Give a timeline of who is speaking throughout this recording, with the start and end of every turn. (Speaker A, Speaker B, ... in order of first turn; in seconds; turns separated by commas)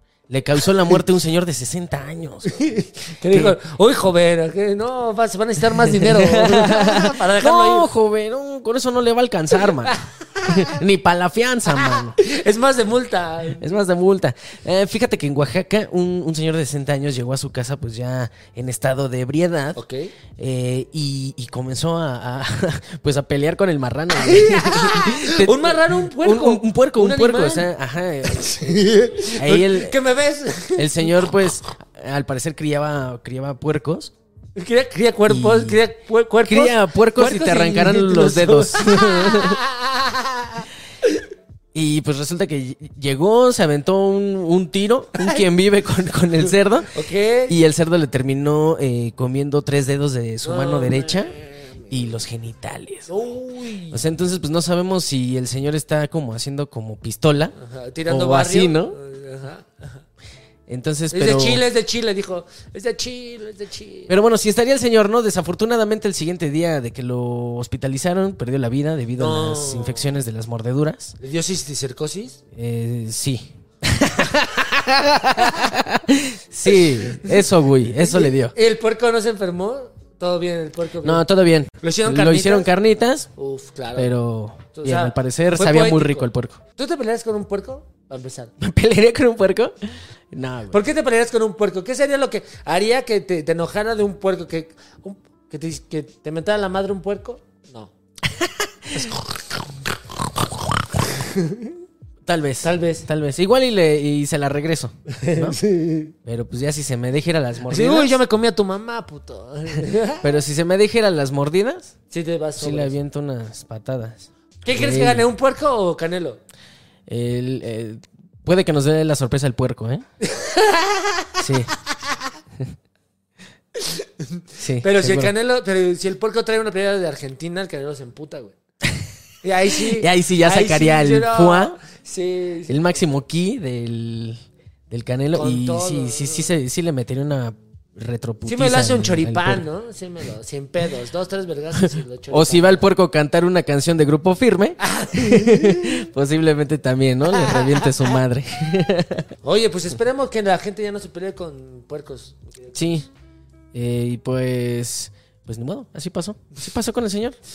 Speaker A: 0.3-2.7, Speaker B: 2.5-7.9, Speaker A: 3.3-3.6, Speaker A: 6.0-12.2, Speaker B: 9.8-10.7, Speaker B: 11.7-13.7, Speaker A: 13.6-19.8, Speaker B: 19.8-20.1, Speaker A: 20.4-28.7, Speaker B: 24.2-27.7, Speaker B: 28.3-31.2, Speaker A: 29.3-29.9, Speaker A: 30.7-34.1, Speaker B: 34.5-41.2, Speaker A: 35.3-35.8, Speaker A: 36.4-39.6, Speaker A: 41.7-46.9, Speaker B: 46.9-47.6, Speaker A: 47.5-51.4, Speaker B: 50.4-52.2, Speaker A: 51.9-53.1, Speaker B: 53.1-54.0, Speaker A: 53.9-57.5, Speaker B: 57.5-60.0, Speaker A: 58.1-59.0, Speaker A: 60.7-61.6, Speaker B: 61.1-64.1, Speaker A: 64.1-71.2, Speaker B: 69.2-70.1, Speaker B: 71.2-72.4, Speaker A: 72.5-78.5, Speaker B: 76.7-81.2, Speaker A: 81.0-83.3, Speaker B: 81.8-82.7, Speaker B: 83.3-84.1, Speaker A: 83.9-86.6, Speaker B: 84.7-88.5, Speaker A: 88.6-89.7, Speaker A: 90.3-90.8, Speaker B: 90.7-97.9, Speaker A: 98.3-99.1, Speaker B: 98.9-101.8, Speaker A: 102.2-105.6, Speaker B: 102.6-103.1, Speaker B: 105.1-106.1, Speaker A: 106.2-108.2, Speaker B: 107.7-110.3, Speaker A: 110.2-111.9, Speaker B: 112.1-112.9, Speaker A: 112.6-115.3, Speaker B: 114.6-116.4, Speaker A: 117.1-120.0, Speaker B: 120.2-121.4, Speaker A: 121.4-121.7, Speaker B: 123.8-128.6, Speaker A: 124.6-125.3, Speaker B: 129.4-132.8, Speaker A: 129.7-131.8, Speaker A: 132.7-139.7, Speaker B: 135.3-136.5, Speaker B: 138.4-142.8, Speaker A: 141.8-149.3, Speaker B: 144.8-146.0, Speaker B: 147.3-147.9, Speaker B: 149.4-152.9, Speaker A: 152.7-153.1, Speaker A: 153.7-157.4